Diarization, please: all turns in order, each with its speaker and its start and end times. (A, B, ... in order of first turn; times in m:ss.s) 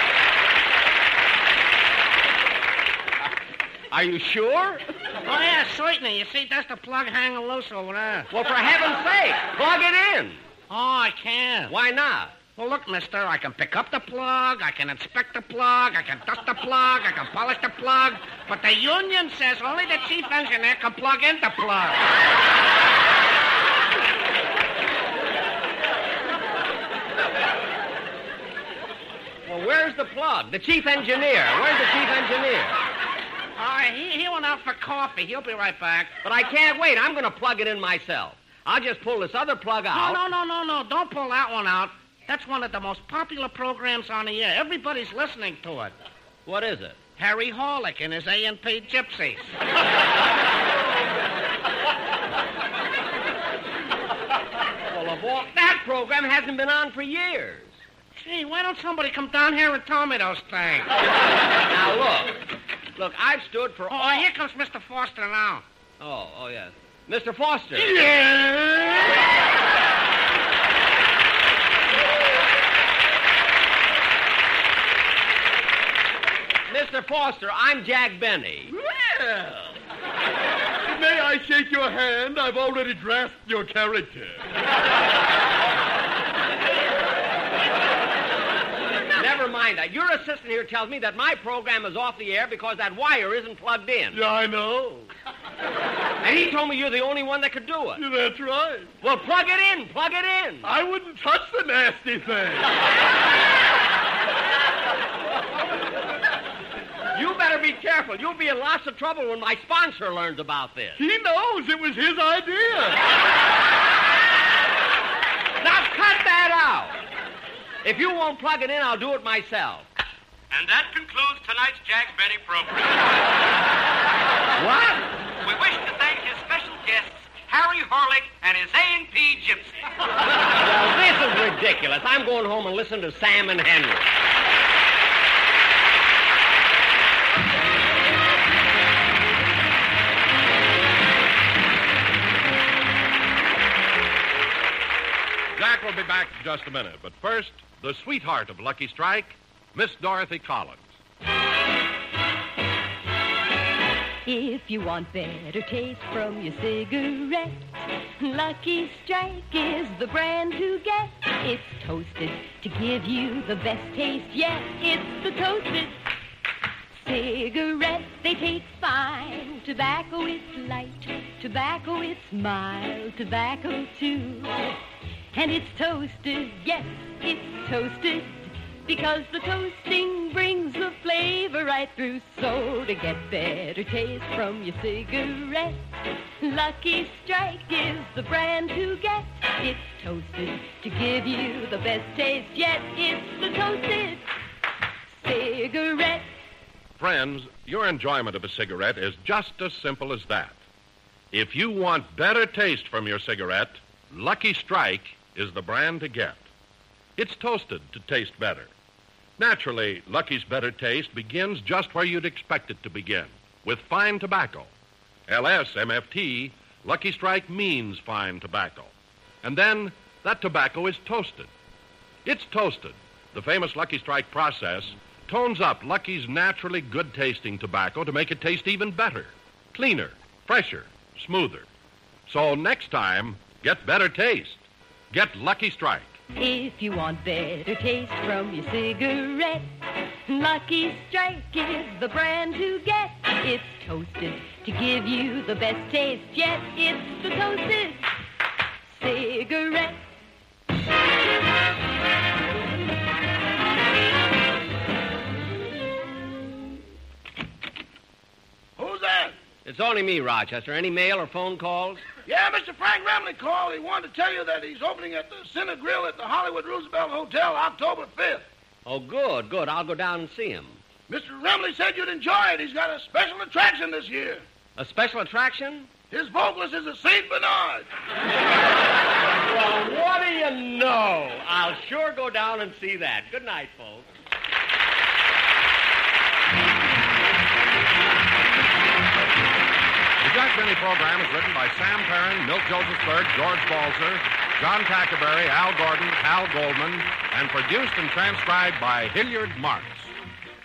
0:03.9-0:04.8 A
0:05.2-0:08.3 B
0:08.3-0:10.4 A
0:10.7-0:11.7 B
0:11.7-0:12.4 A
0:12.6-0:22.1 B
0:29.5-0:32.8 A
0:33.6-0:36.1 B
0:36.2-0:40.2 A
0:39.9-0:46.0 B
0:46.5-0:47.0 A
0:47.2-0:49.4 B
0:54.9-0:57.8 A
0:58.2-1:00.9 B
1:01.7-1:02.4 A
1:03.0-1:04.3 A
1:03.9-1:05.6 B
1:06.0-1:08.1 A
1:08.2-1:09.1 C
1:16.7-1:18.7 A
1:18.7-1:19.8 C
1:20.8-1:24.4 C
1:29.2-1:34.2 A
1:34.1-1:35.1 C
1:36.2-1:38.0 A
1:38.0-1:38.9 C
1:39.0-1:40.7 A
1:40.6-1:42.7 C
1:47.1-1:51.0 A
1:51.0-1:53.0 C
1:55.6-1:57.0 A
1:57.8-1:59.9 A
2:00.6-2:02.9 D
2:04.6-2:05.1 A
2:05.4-2:09.8 D
2:10.4-2:14.2 A
2:25.6-2:30.8 E
2:34.3-2:46.0 F
2:46.9-2:54.7 F
2:55.3-3:05.8 F
3:06.4-3:14.3 F
3:15.1-3:16.3 F
3:17.0-3:20.6 E
3:21.3-3:26.4 E
3:27.2-3:28.7 E
3:29.4-3:34.7 E
3:35.3-3:41.5 E
3:42.2-3:51.7 E
3:52.3-3:56.2 E
3:56.4-3:59.7 F
4:00.3-4:08.1 F
4:08.8-4:10.0 F
4:18.8-4:19.4 G
4:19.6-4:22.0 A
4:22.3-4:28.4 G
4:28.8-4:30.8 A
4:31.1-4:34.4 G
4:34.8-4:35.9 A
4:36.1-4:37.9 G
4:39.3-4:44.1 A
4:50.2-5:00.1 E